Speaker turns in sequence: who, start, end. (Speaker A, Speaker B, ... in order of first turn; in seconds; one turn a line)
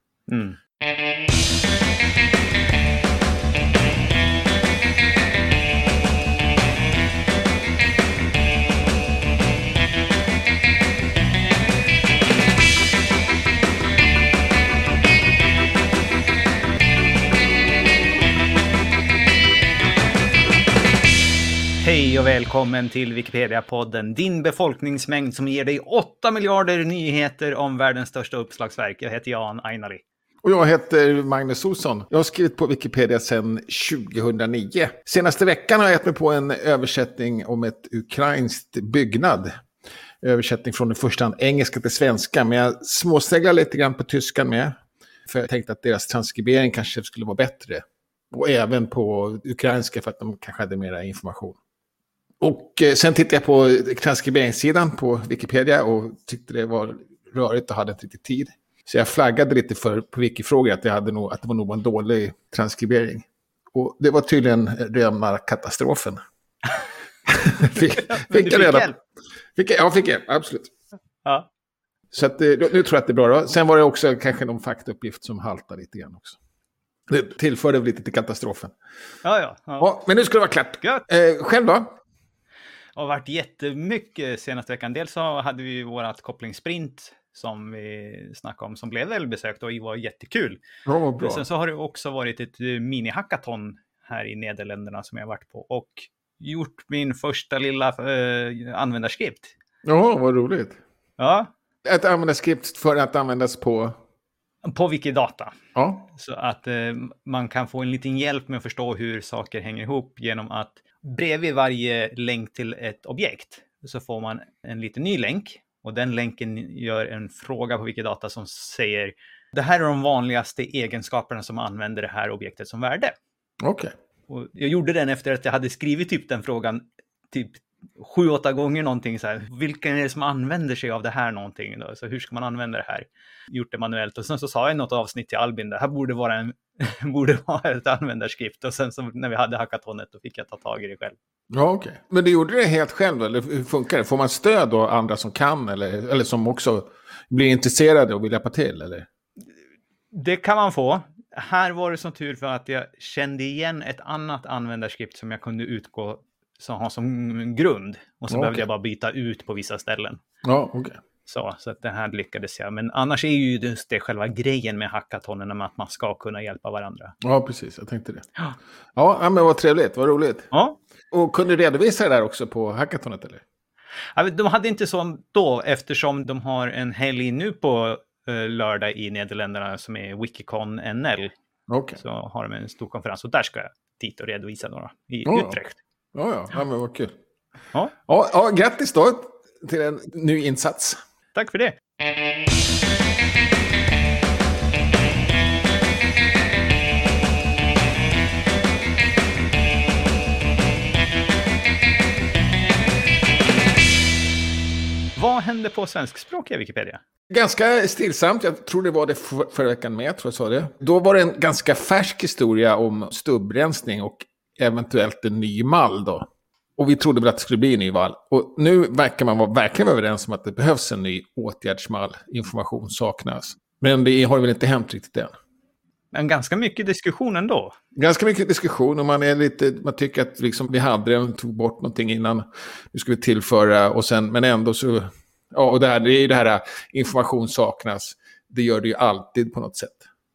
Speaker A: 0.3-0.6
Speaker A: 21.8-30.0
Speaker B: 30.4-39.5
Speaker B: 40.2-51.6
Speaker B: 52.4-66.2
Speaker B: 67.3-68.9
Speaker A: 67.7-69.0
Speaker B: 69.5-70.7
Speaker B: 72.1-76.4
Speaker B: 77.1-78.7
Speaker A: 79.2-79.9
Speaker B: 79.8-81.9
Speaker A: 82.9-90.6
Speaker B: 90.8-91.5
Speaker A: 91.2-99.5
Speaker B: 99.8-100.8
Speaker A: 101.2-101.5
Speaker B: 101.8-103.9
Speaker A: 104.6-105.5
Speaker B: 105.7-106.1
Speaker A: 106.1-123.1
Speaker B: 123.6-123.9
Speaker A: 124.3-141.2
Speaker B: 141.5-149.1
Speaker A: 150.1-160.2
Speaker B: 158.3-158.6
Speaker B: 160.4-161.0
Speaker A: 161.2-167.1
Speaker B: 167.2-168.2
Speaker B: 168.9-170.5
Speaker A: 170.5-170.8
Speaker B: 171.1-173.4
Speaker A: 174.1-181.3
Speaker B: 181.7-182.0
Speaker A: 182.0-185.8
Speaker B: 185.3-185.6
Speaker B: 186.1-187.1
Speaker B: 188.1-191.0
Speaker A: 191.3-191.8
Speaker A: 205.2-207.0
Speaker B: 207.3-216.2
Speaker B: 216.8-225.3
Speaker A: 226.1-227.7
Speaker B: 227.9-240.1